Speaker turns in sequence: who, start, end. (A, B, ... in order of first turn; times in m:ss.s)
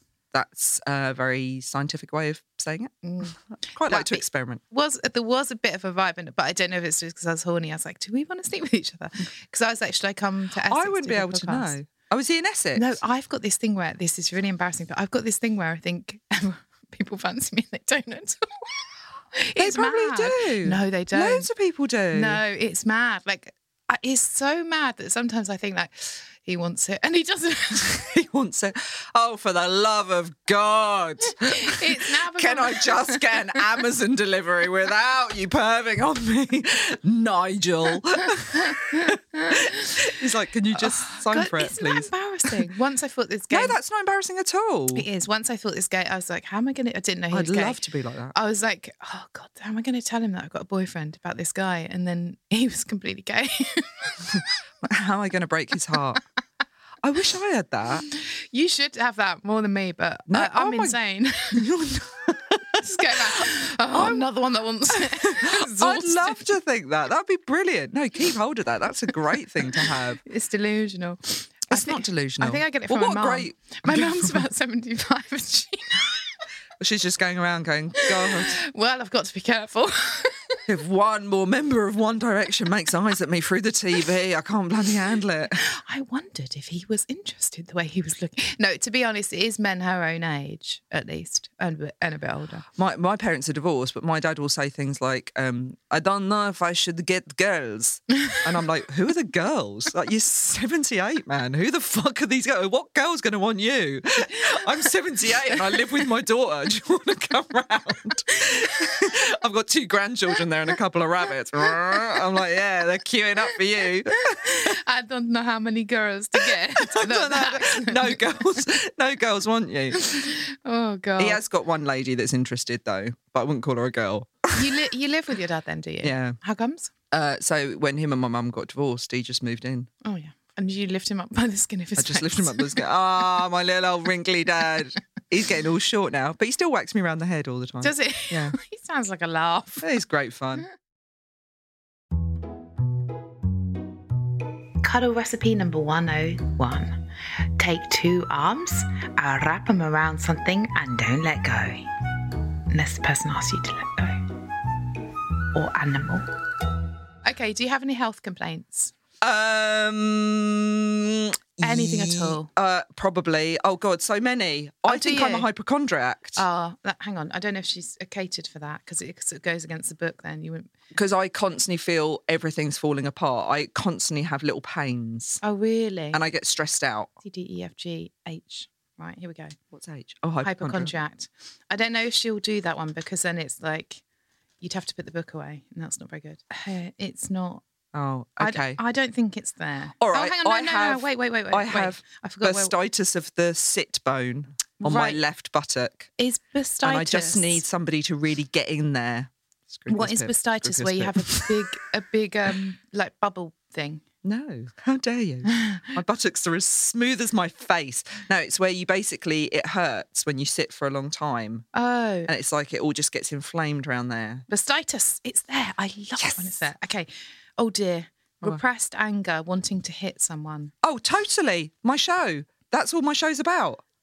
0:00.3-0:04.6 A
0:03.0-0:03.4 B
0:03.9-0:11.7 B
0:10.7-0:13.0 A
0:12.7-0:18.6 B
0:19.3-0:21.5 B
0:19.6-0:22.4 A
0:22.1-0:28.1 B
0:27.9-0:42.6 A
0:31.4-0:33.5 B
0:38.8-0:40.1 B
0:40.8-0:43.8 B
0:43.5-0:45.1 A
0:44.9-0:47.8 B
0:47.3-0:48.3 A
0:48.3-0:54.4 B
0:54.8-0:56.2 A
0:57.0-0:58.0 A
0:58.0-1:01.6 B
1:00.3-1:01.0 A
1:01.5-1:04.3 A
1:02.8-1:06.4 B
1:04.9-1:10.2 A
1:10.2-1:16.2 B
1:11.7-1:14.5 A
1:16.8-1:18.6 A
1:18.1-1:20.6 B
1:20.7-1:25.6 A
1:25.6-1:32.6 B
1:32.7-1:54.8 A
1:48.4-1:49.0 B
1:54.3-1:58.2 B
1:56.4-2:00.1 A
2:00.0-2:01.4 B
2:01.2-2:04.7 A
2:04.5-2:06.9 B
2:06.0-2:06.4 A
2:07.1-2:09.9 A
2:10.0-2:12.8 B
2:12.0-2:18.6 A
2:17.8-2:19.9 B
2:19.8-2:20.6 A
2:24.8-2:31.9 B
2:32.7-2:34.2 B
2:35.5-2:36.2 B
2:37.2-2:38.9 B
2:39.2-2:46.4 A
2:41.6-2:42.5 B
2:44.9-2:45.5 B
2:46.3-2:50.7 B
2:50.9-2:55.4 A
2:55.4-2:56.2 B
2:56.1-2:57.1 A
2:57.2-2:59.6 B
2:59.7-3:00.9 A
3:00.4-3:04.0 B
3:04.6-3:07.6 B
3:07.9-3:08.8 A
3:08.4-3:12.7 B
3:10.0-3:16.1 A
3:14.8-3:15.2 B
3:16.2-3:17.6 B
3:16.8-3:21.5 A
3:19.9-3:24.0 B
3:24.2-3:31.6 A
3:25.5-3:25.9 B
3:31.7-3:32.3 B
3:32.3-3:34.4 A
3:34.5-3:40.7 B
3:36.2-3:36.7 A
3:40.8-3:43.8 A